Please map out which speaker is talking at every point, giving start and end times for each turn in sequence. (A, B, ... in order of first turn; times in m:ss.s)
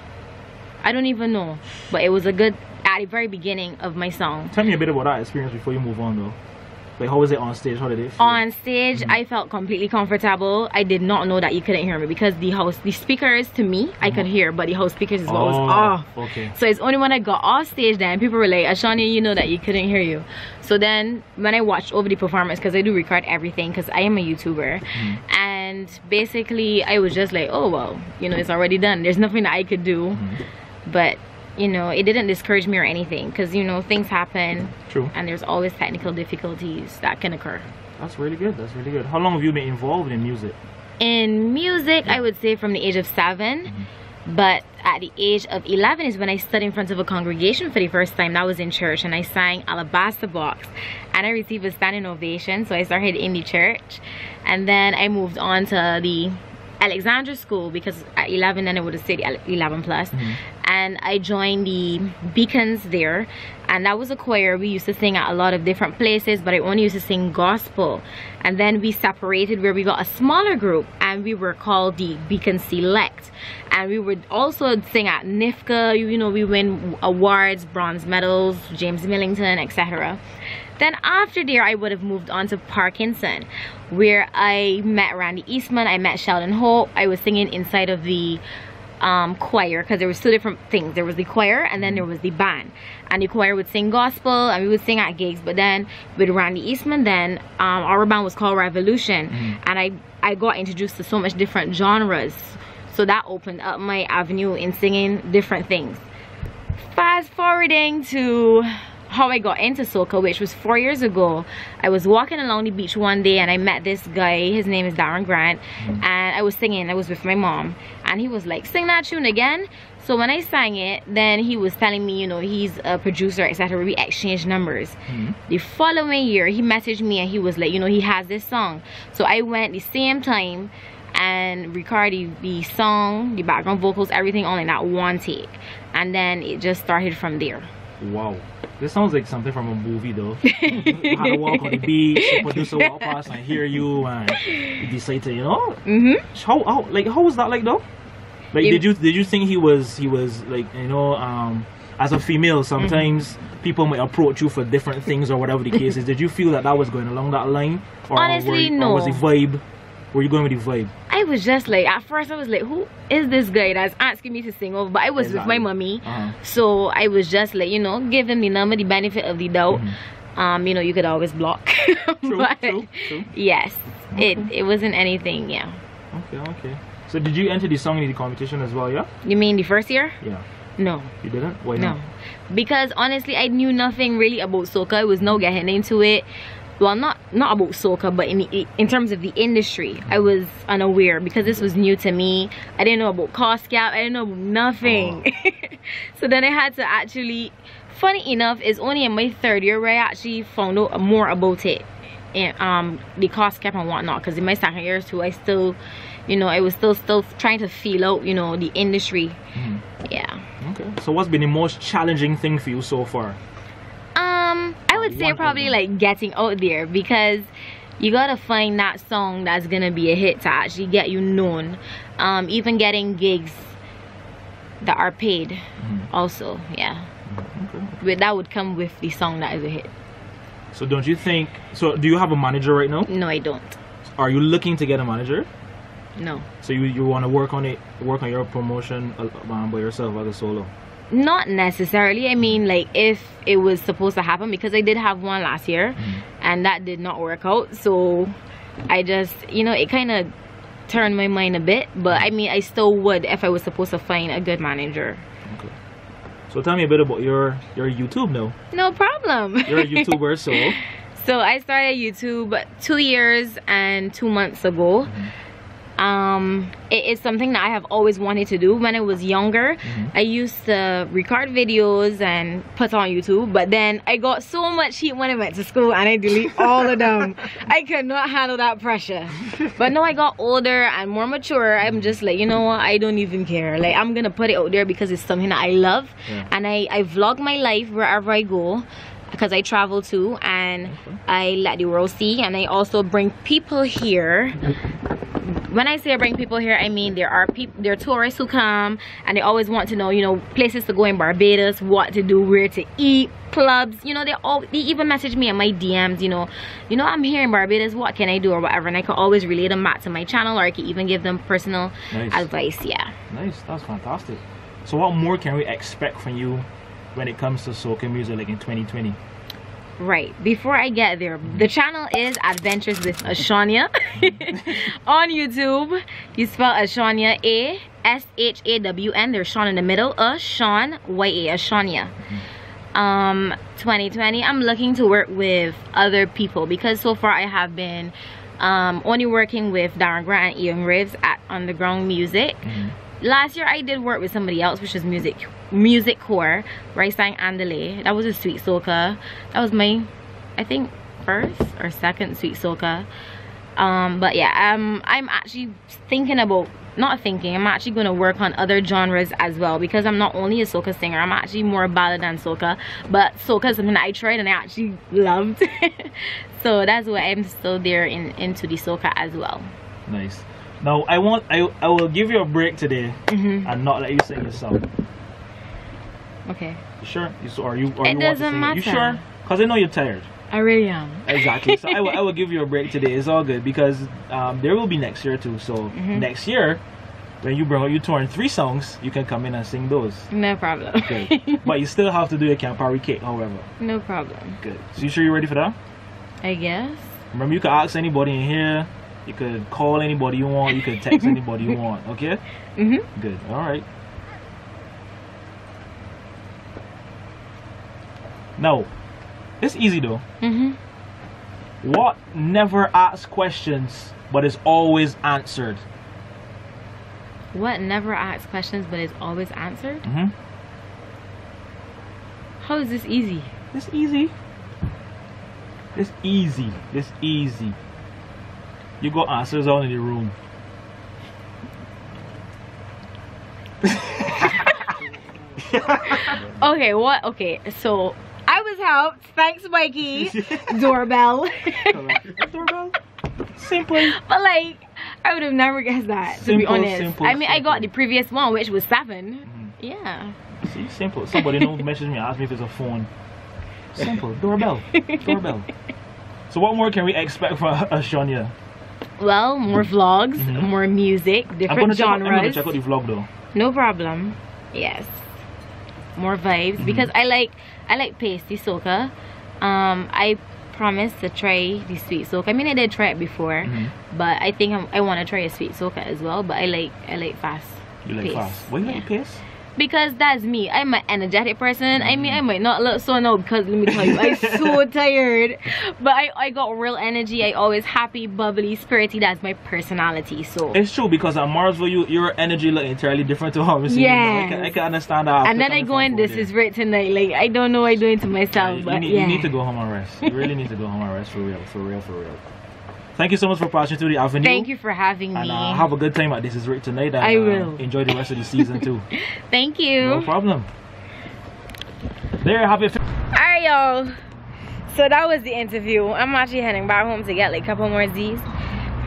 0:00.8-0:04.5 A
0:04.5-0:06.4 B
0:07.0-0:08.4 B
0:08.2-0:30.3 A
0:15.3-0:16.6 B
0:24.9-0:25.2 B
0:30.2-0:30.4 B
0:30.9-0:37.7 A
0:38.0-0:40.6 B
0:41.0-0:43.8 A
0:44.3-1:20.2 A
1:00.1-1:00.4 B
1:20.8-1:28.4 A
1:29.0-1:46.0 A
1:31.8-1:32.0 B
1:39.3-1:39.6 B
1:46.9-2:17.7 A
1:55.8-1:56.0 B
2:05.1-2:05.4 B
2:18.0-2:25.8 B
2:20.5-2:23.6 A
2:24.3-2:24.8 A
2:25.9-2:26.3 A
2:26.3-2:27.8 B
2:28.5-2:40.9 B
2:32.8-2:33.1 A
2:38.2-2:39.2 A
2:41.1-2:55.8 A
2:45.2-2:46.4 B
2:49.7-2:50.0 B
2:52.2-2:53.3 B
2:54.1-2:54.5 B
2:56.1-2:59.1 B
2:59.2-3:00.2 A
3:00.8-3:01.1 A
3:01.2-3:02.0 B
3:01.8-3:06.3 A
3:06.8-3:29.4 A
3:14.8-3:15.2 B
3:29.6-3:29.8 B
3:30.0-3:30.5 A
3:30.6-3:33.4 B
3:34.2-3:43.8 A
3:34.9-3:35.8 B
3:44.8-3:47.1 A
3:45.8-3:46.1 B
3:47.3-3:48.0 B
3:48.0-3:49.9 A
3:50.7-3:53.1 B
3:53.0-3:53.8 A
3:54.2-3:55.5 B
3:56.2-3:56.5 A
3:56.6-4:00.7 B
4:01.1-4:08.4 A
4:06.0-4:06.2 B
4:08.9-4:10.3 A
4:10.9-4:15.2 A
4:15.5-4:15.7 B
4:16.5-4:18.6 B
4:18.7-4:25.2 A
4:19.7-4:20.8 B
4:25.0-4:25.3 B
4:26.0-4:54.8 A
4:29.8-4:30.1 B
4:41.8-4:42.1 B
4:50.9-4:51.2 B
4:55.4-5:13.1 A
5:12.1-5:12.5 B
5:13.3-5:19.2 B
5:20.0-5:32.2 A
5:24.2-5:24.6 B
5:32.9-5:42.6 A
5:42.6-5:43.0 B
5:43.2-5:53.1 A
5:53.8-6:09.7 A
6:10.1-6:14.9 B
6:13.3-6:13.7 A
6:16.5-6:16.8 A
6:17.0-6:20.3 B
6:18.0-6:19.2 A
6:20.5-6:22.2 A
6:21.3-6:26.8 B
6:25.9-6:26.3 A
6:27.4-6:30.3 B
6:30.3-6:31.7 A
6:31.0-6:33.7 B
6:33.8-6:34.6 A
6:34.6-6:35.8 B
6:36.4-6:37.2 A
6:37.3-6:42.4 B
6:41.0-6:41.4 A
6:42.8-6:43.1 A
6:43.2-6:43.8 B
6:48.6-6:48.9 B
6:49.6-6:50.2 B
6:50.4-6:50.8 A
6:51.8-6:55.8 B
6:57.5-7:00.0 A
7:00.0-7:00.3 B
7:02.6-7:03.5 A
7:03.7-7:04.3 B
7:06.0-7:07.8 B
7:09.0-7:10.4 B
7:13.8-7:14.8 B
7:15.6-7:16.4 B
7:16.2-7:22.3 A
7:20.2-7:20.8 B
7:21.9-7:23.0 B
7:23.6-7:24.2 B
7:24.0-7:30.4 A
7:26.3-7:27.9 B
7:29.5-7:29.7 B
7:30.6-7:33.1 B
7:31.4-7:31.7 A
7:33.9-7:35.7 B
7:34.9-7:35.4 A
7:36.5-7:38.5 B
7:39.2-7:42.8 A
7:39.7-7:40.7 B
7:41.7-7:43.3 B
7:43.5-7:45.3 A
7:46.2-7:59.1 A
7:46.8-7:47.1 B
7:53.6-7:53.9 B
7:58.0-7:59.4 B
7:59.8-8:10.8 A
8:02.0-8:02.4 B
8:03.9-8:04.8 B
8:10.7-8:16.5 B
8:13.9-8:14.8 A
8:15.4-8:19.5 A
8:18.5-8:22.4 B
8:23.2-8:24.7 B
8:24.4-8:25.9 A
8:25.3-8:29.1 B
8:27.2-8:27.8 A
8:29.1-8:30.3 A
8:30.0-8:30.7 B
8:32.4-8:33.0 B
8:33.3-8:34.2 A
8:34.9-8:38.5 A